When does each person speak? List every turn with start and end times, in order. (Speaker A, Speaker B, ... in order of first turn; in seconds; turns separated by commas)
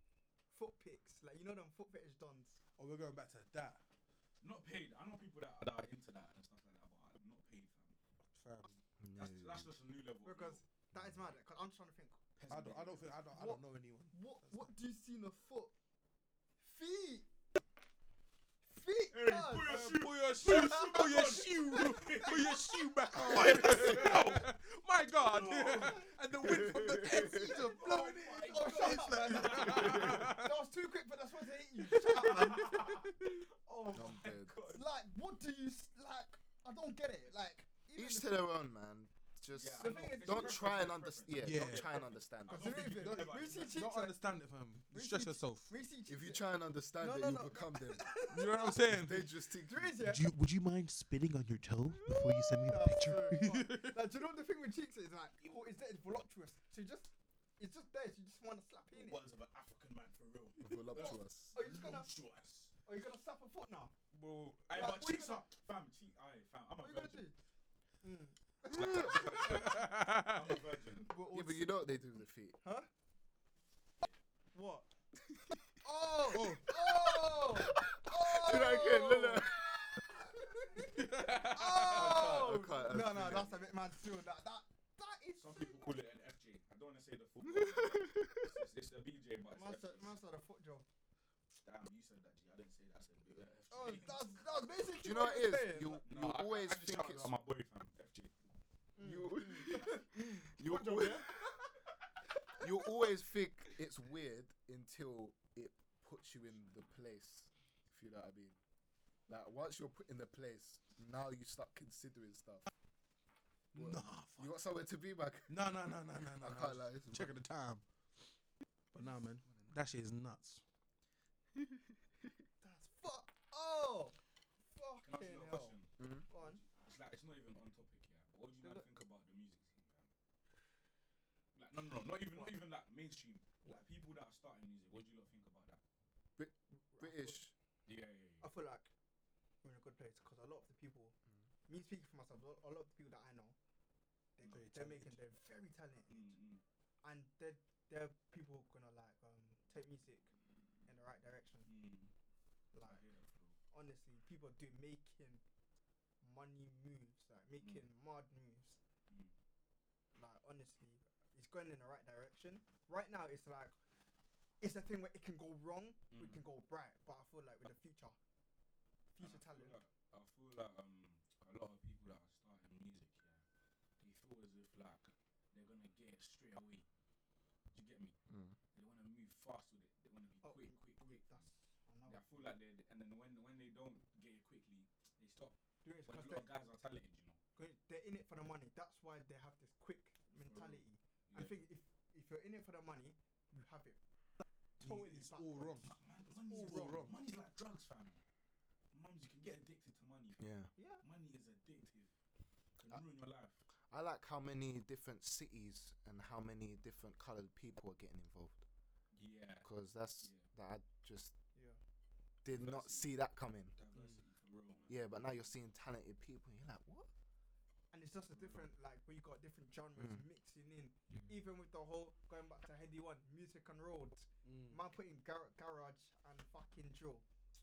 Speaker A: 0.5-2.6, Speaker B: 2.8-3.8, Speaker C: 4.4-8.0, Speaker B: 8.3-8.8, Speaker D: 9.0-9.7, Speaker C: 9.2-10.6, Speaker A: 10.2-12.2, Speaker D: 10.9-11.2, Speaker C: 12.4-13.2, Speaker B: 12.5-14.7, Speaker A: 13.3-15.7, Speaker A: 16.6-17.3, Speaker A: 18.7-19.9, Speaker C: 19.1-24.5, Speaker B: 19.6-30.6, Speaker A: 20.4-22.3, Speaker D: 23.7-24.1, Speaker C: 25.2-26.1, Speaker D: 26.4-27.5, Speaker A: 27.0-33.0, Speaker C: 27.7-30.3, Speaker D: 29.7-30.2, Speaker B: 31.9-33.1, Speaker C: 32.1-34.8, Speaker D: 33.9-34.6, Speaker A: 34.7-38.4, Speaker D: 38.0-42.9, Speaker C: 39.5-43.8, Speaker A: 39.8-40.8, Speaker B: 41.4-41.9, Speaker A: 42.5-44.2, Speaker B: 42.6-45.7, Speaker A: 44.9-46.4, Speaker D: 46.1-50.0, Speaker A: 47.0-48.8, Speaker B: 48.3-49.3, Speaker A: 49.6-50.3, Speaker E: 50.0-53.6, Speaker A: 52.1-59.2, Speaker B: 53.4-54.0, Speaker C: 58.9-62.7, Speaker D: 60.6-61.6, Speaker A: 61.0-62.1, Speaker A: 62.9-63.9, Speaker C: 64.1-67.3, Speaker A: 64.7-65.5, Speaker A: 66.8-67.3, Speaker A: 68.0-69.7, Speaker C: 68.7-71.1, Speaker B: 69.4-70.6, Speaker A: 71.0-71.8, Speaker D: 71.3-72.6, Speaker A: 72.6-72.9, Speaker A: 74.5-74.9, Speaker D: 75.3-75.6, Speaker A: 75.8-85.9, Speaker B: 76.3-76.7, Speaker D: 76.8-80.0, Speaker B: 80.9-82.4, Speaker C: 81.8-82.6, Speaker D: 81.9-83.7, Speaker C: 85.4-90.2, Speaker D: 87.4-88.5, Speaker A: 89.5-90.9, Speaker C: 91.6-94.6, Speaker A: 93.7-96.0, Speaker D: 94.9-97.4, Speaker C: 96.0-98.3, Speaker A: 99.0-101.5, Speaker D: 99.0-101.5, Speaker D: 102.6-108.6, Speaker D: 109.3-112.6, Speaker B: 113.7-114.6, Speaker D: 113.8-117.4, Speaker B: 115.5-117.8, Speaker B: 118.9-120.6, Speaker A: 122.6-124.2, Speaker A: 124.7-125.8, Speaker C: 125.0-130.1, Speaker D: 126.0-126.3, Speaker A: 126.3-126.6, Speaker A: 128.6-128.9, Speaker C: 131.6-135.8, Speaker D: 136.4-137.5, Speaker A: 136.9-137.4, Speaker C: 137.9-138.5, Speaker A: 138.4-138.9, Speaker A: 139.6-141.2, Speaker A: 141.7-143.6, Speaker A: 144.4-146.3, Speaker C: 144.4-144.7, Speaker B: 144.5-145.2, Speaker C: 146.1-146.6, Speaker A: 147.0-150.3, Speaker A: 150.9-151.7, Speaker C: 151.7-152.1, Speaker A: 152.7-153.0, Speaker C: 152.8-153.6, Speaker A: 153.7-155.4, Speaker A: 156.2-158.8, Speaker A: 160.2-163.8, Speaker A: 164.6-168.2, Speaker C: 166.1-166.4, Speaker A: 169.2-169.8, Speaker C: 169.2-173.4, Speaker C: 174.0-176.9, Speaker C: 177.7-178.2, Speaker D: 178.3-178.6, Speaker C: 178.7-181.4, Speaker A: 180.4-182.3, Speaker C: 182.1-187.4, Speaker A: 185.8-186.5, Speaker A: 187.6-194.0, Speaker C: 190.3-191.6, Speaker A: 194.8-195.9, Speaker B: 194.8-196.0, Speaker C: 195.8-198.2, Speaker B: 196.5-197.2, Speaker A: 196.5-197.0, Speaker C: 198.9-200.5, Speaker D: 200.4-200.7, Speaker A: 200.8-201.0, Speaker C: 201.0-202.1, Speaker C: 202.8-203.6, Speaker D: 203.9-208.7, Speaker C: 209.1-209.7, Speaker D: 209.6-211.3, Speaker C: 210.2-210.5, Speaker D: 212.4-213.8, Speaker C: 212.5-213.1, Speaker C: 213.8-215.0, Speaker D: 214.9-217.1, Speaker A: 217.9-227.2, Speaker D: 220.0-220.2, Speaker B: 224.4-224.8